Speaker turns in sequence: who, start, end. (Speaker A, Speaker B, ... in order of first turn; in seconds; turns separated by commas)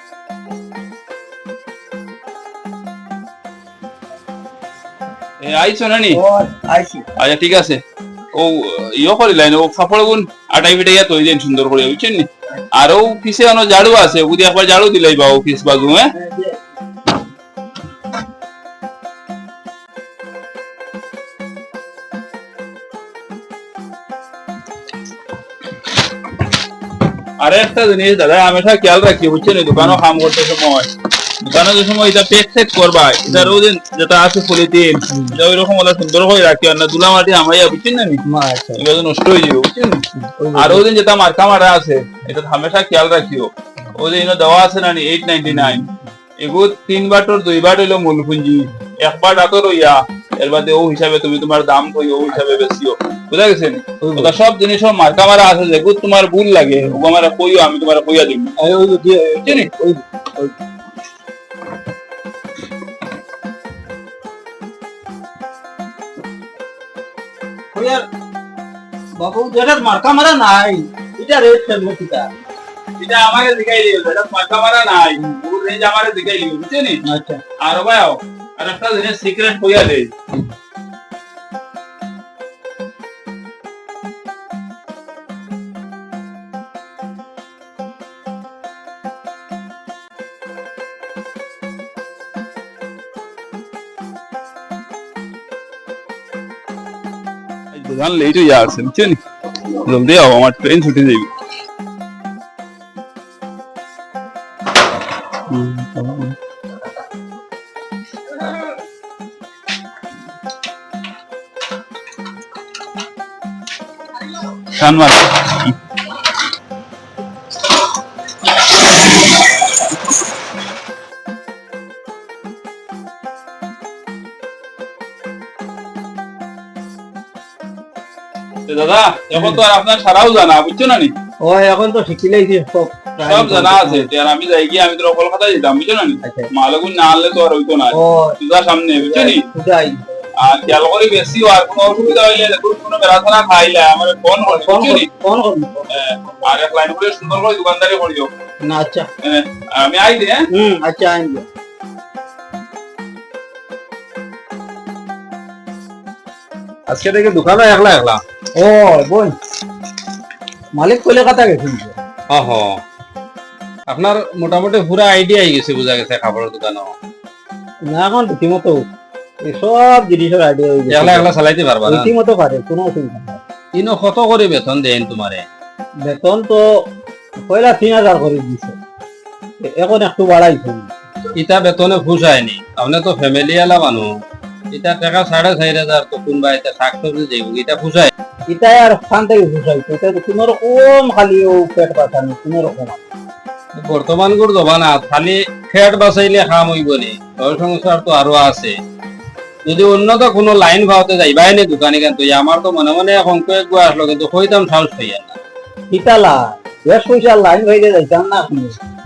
Speaker A: 5.4-6.2, Speaker B: 6.1-7.1, Speaker A: 7.2-7.8, Speaker A: 8.3-16.1, Speaker B: 16.2-16.5, Speaker A: 27.4-30.9, Speaker A: 31.4-38.2, Speaker B: 33.3-33.5, Speaker B: 35.1-35.4, Speaker B: 38.3-38.8, Speaker A: 38.8-40.0, Speaker B: 40.2-40.8, Speaker A: 40.6-45.9, Speaker B: 45.5-45.8, Speaker A: 46.4-58.5, Speaker B: 54.0-54.3, Speaker B: 58.6-60.6, Speaker B: 67.7-68.1, Speaker B: 69.2-72.3, Speaker A: 73.0-77.0, Speaker B: 77.0-77.4, Speaker A: 77.6-80.1, Speaker A: 97.7-99.2, Speaker A: 99.8-101.3, Speaker A: 105.5-106.3, Speaker A: 114.8-115.8, Speaker A: 128.7-131.1, Speaker B: 131.4-134.1, Speaker A: 133.2-139.4, Speaker B: 137.9-138.4, Speaker B: 139.0-140.3, Speaker A: 140.4-145.1, Speaker B: 144.5-145.9, Speaker A: 145.9-148.3, Speaker B: 148.6-149.1, Speaker A: 149.2-150.4, Speaker B: 150.5-151.5, Speaker C: 156.9-158.2, Speaker B: 158.6-159.3, Speaker B: 160.8-162.0, Speaker C: 162.3-162.8, Speaker C: 163.9-166.9, Speaker B: 167.9-168.8, Speaker B: 169.4-171.3, Speaker C: 170.9-172.1, Speaker B: 171.9-173.4, Speaker C: 173.8-175.5, Speaker B: 176.1-176.7, Speaker B: 177.4-178.8, Speaker B: 179.6-180.9, Speaker C: 181.3-184.1, Speaker C: 184.7-188.1, Speaker B: 188.5-193.0, Speaker C: 193.8-198.8, Speaker C: 199.7-205.4, Speaker B: 205.9-208.8